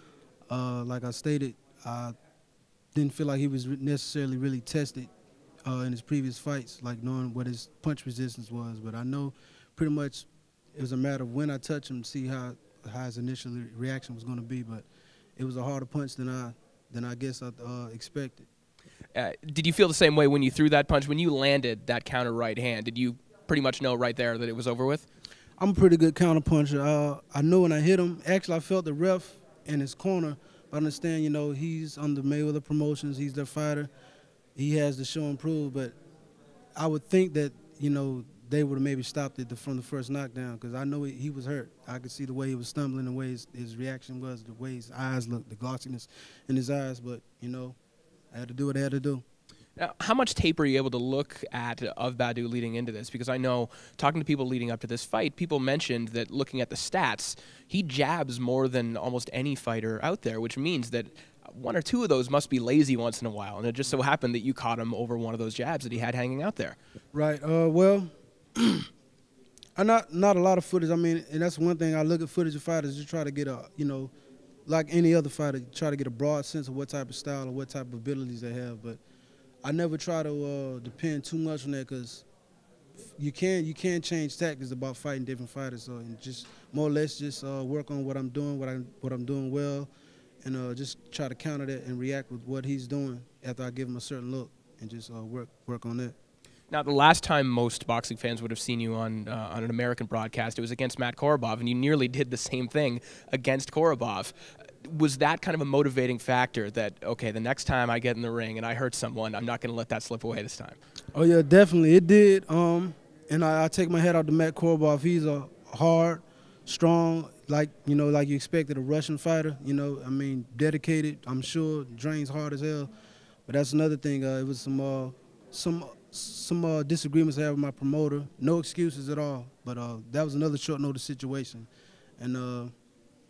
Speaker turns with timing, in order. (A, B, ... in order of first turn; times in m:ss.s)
0:00.5-0:02.1 A
0:03.0-0:05.1 A
0:05.6-0:14.8 A
0:15.4-0:18.5 A
0:19.2-0:25.1 B
0:25.6-0:33.9 A
0:34.6-0:36.0 A
0:36.8-0:47.8 A
0:48.3-0:49.2 A
0:49.8-1:06.8 B
1:07.1-1:08.9 A
1:09.8-1:14.1 A
1:14.7-1:19.0 A
1:19.6-1:22.2 A
1:23.2-1:29.9 A
1:30.4-1:36.2 A
1:36.7-1:50.8 B
1:51.1-2:02.9 A
2:03.5-2:11.7 A
2:12.2-2:12.7 A